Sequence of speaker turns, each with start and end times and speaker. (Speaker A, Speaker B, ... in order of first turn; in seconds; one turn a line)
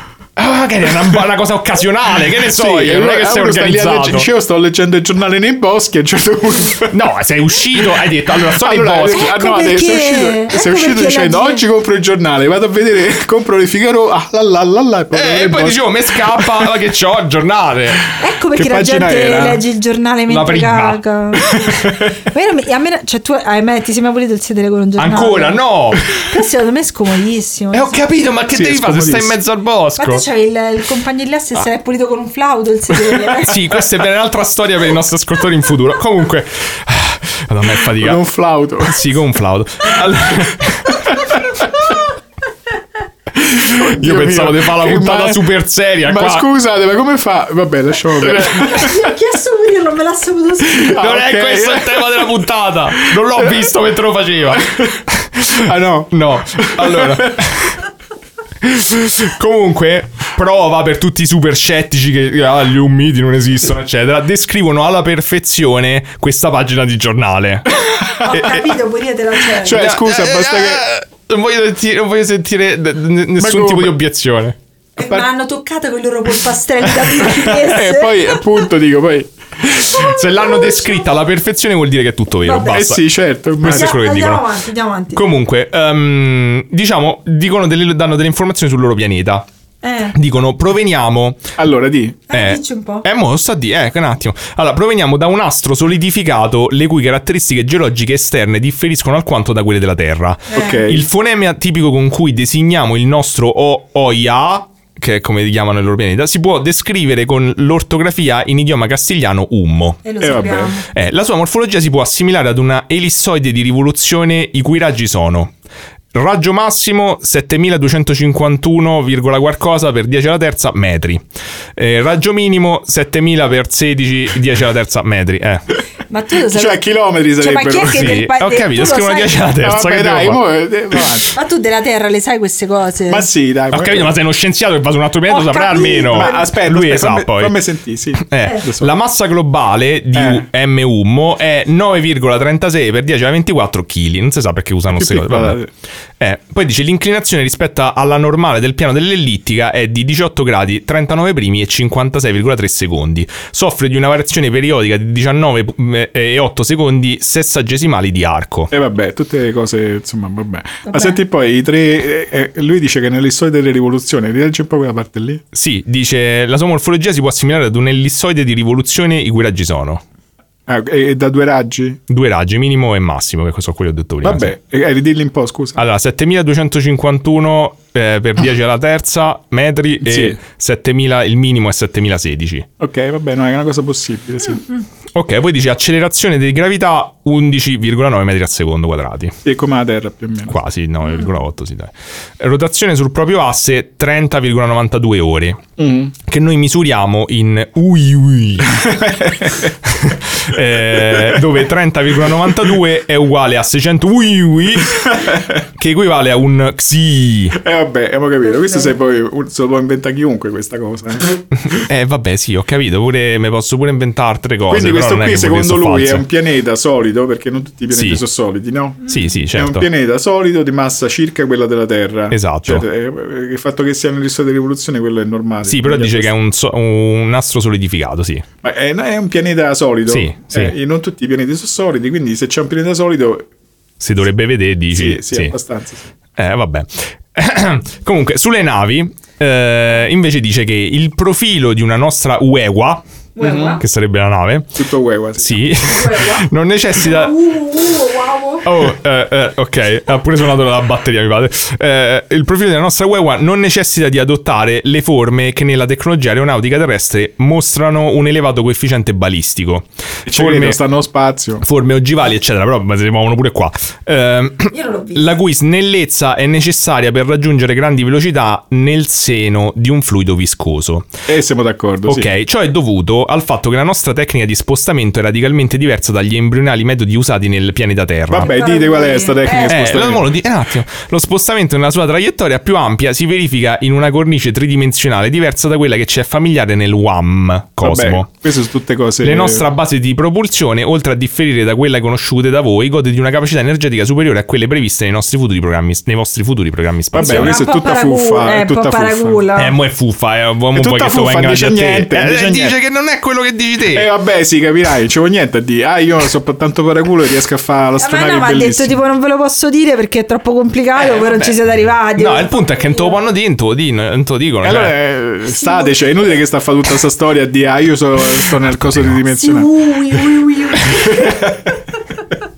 Speaker A: 0.4-4.3
Speaker B: 2.4-6.9
Speaker A: 6.9-9.3
Speaker B: 8.4-16.7
Speaker C: 9.1-11.6
Speaker A: 15.1-18.0
Speaker C: 18.2-28.0
Speaker B: 18.5-19.6
Speaker A: 20.3-21.8
Speaker A: 25.0-26.1
Speaker A: 27.7-30.2
Speaker B: 28.5-29.3
Speaker C: 30.0-33.7
Speaker A: 33.3-38.2
Speaker B: 37.9-39.0
Speaker A: 38.8-41.4
Speaker A: 43.4-46.5
Speaker B: 43.6-45.4
Speaker B: 46.0-49.1
Speaker C: 48.4-51.0
Speaker B: 50.7-52.3
Speaker A: 50.9-57.8
Speaker B: 53.0-53.6
Speaker B: 54.6-54.9
Speaker B: 55.5-57.4
Speaker A: 58.6-68.7
Speaker C: 68.1-69.8
Speaker B: 69.6-70.8
Speaker A: 69.7-74.5
Speaker B: 73.4-74.0
Speaker C: 75.0-78.4
Speaker B: 75.0-75.2
Speaker B: 77.3-80.1
Speaker A: 79.7-83.0
Speaker C: 80.5-80.8
Speaker C: 82.4-82.8
Speaker B: 82.6-84.0
Speaker A: 83.6-84.5
Speaker C: 83.6-85.2
Speaker A: 85.1-89.5
Speaker C: 89.8-90.2
Speaker A: 90.1-91.4
Speaker B: 91.6-92.2
Speaker C: 92.3-93.0
Speaker A: 92.3-110.0
Speaker C: 100.5-100.8
Speaker B: 100.5-101.1
Speaker C: 110.0-110.8
Speaker B: 110.2-110.8
Speaker A: 110.9-115.5
Speaker A: 116.1-121.2
Speaker A: 121.8-125.8
Speaker C: 126.1-126.8
Speaker B: 126.5-128.2
Speaker C: 127.4-129.4
Speaker A: 127.8-130.4
Speaker B: 129.6-131.4
Speaker C: 131.3-133.3
Speaker B: 133.1-134.1
Speaker A: 133.7-137.6
Speaker C: 135.3-136.5
Speaker B: 135.7-138.9
Speaker A: 138.2-145.6
Speaker B: 140.1-140.4
Speaker B: 144.9-145.7
Speaker A: 146.2-158.7
Speaker B: 158.7-165.4
Speaker C: 160.9-161.2
Speaker A: 165.5-170.0
Speaker B: 170.7-172.0
Speaker A: 172.1-174.5
Speaker B: 174.2-175.8
Speaker A: 175.8-182.7
Speaker B: 180.0-180.4
Speaker B: 182.8-184.6
Speaker A: 185.1-189.4
Speaker B: 189.4-190.6
Speaker A: 190.5-198.9
Speaker B: 195.8-196.1
Speaker B: 198.7-199.7
Speaker A: 199.8-207.6
Speaker B: 200.8-201.5
Speaker B: 205.0-205.6
Speaker B: 207.5-211.4
Speaker A: 211.6-216.2
Speaker B: 214.7-226.3
Speaker A: 217.9-218.2
Speaker A: 219.1-219.9
Speaker A: 222.3-222.8
Speaker A: 225.6-228.4
Speaker B: 228.6-233.5
Speaker A: 230.1-230.7
Speaker A: 234.0-235.5
Speaker B: 234.9-236.1
Speaker A: 236.4-243.0
Speaker C: 243.3-243.8
Speaker B: 243.4-243.8
Speaker A: 243.8-244.8
Speaker B: 244.8-245.7
Speaker A: 245.4-247.3
Speaker C: 245.8-248.7
Speaker A: 248.6-260.8
Speaker B: 260.2-261.6
Speaker A: 261.6-271.1
Speaker C: 264.7-265.3
Speaker B: 271.3-272.3
Speaker A: 272.1-278.5
Speaker B: 278.3-280.3
Speaker C: 278.4-279.9
Speaker A: 279.6-288.3
Speaker B: 287.8-289.6
Speaker A: 289.2-297.6
Speaker B: 297.1-299.4
Speaker C: 297.1-299.7
Speaker A: 299.6-304.1
Speaker B: 300.7-302.8
Speaker B: 303.9-309.0
Speaker C: 308.0-313.2
Speaker A: 311.0-311.6
Speaker A: 312.1-314.9
Speaker B: 314.6-319.7
Speaker C: 315.5-316.1
Speaker C: 319.3-321.5
Speaker B: 320.9-321.7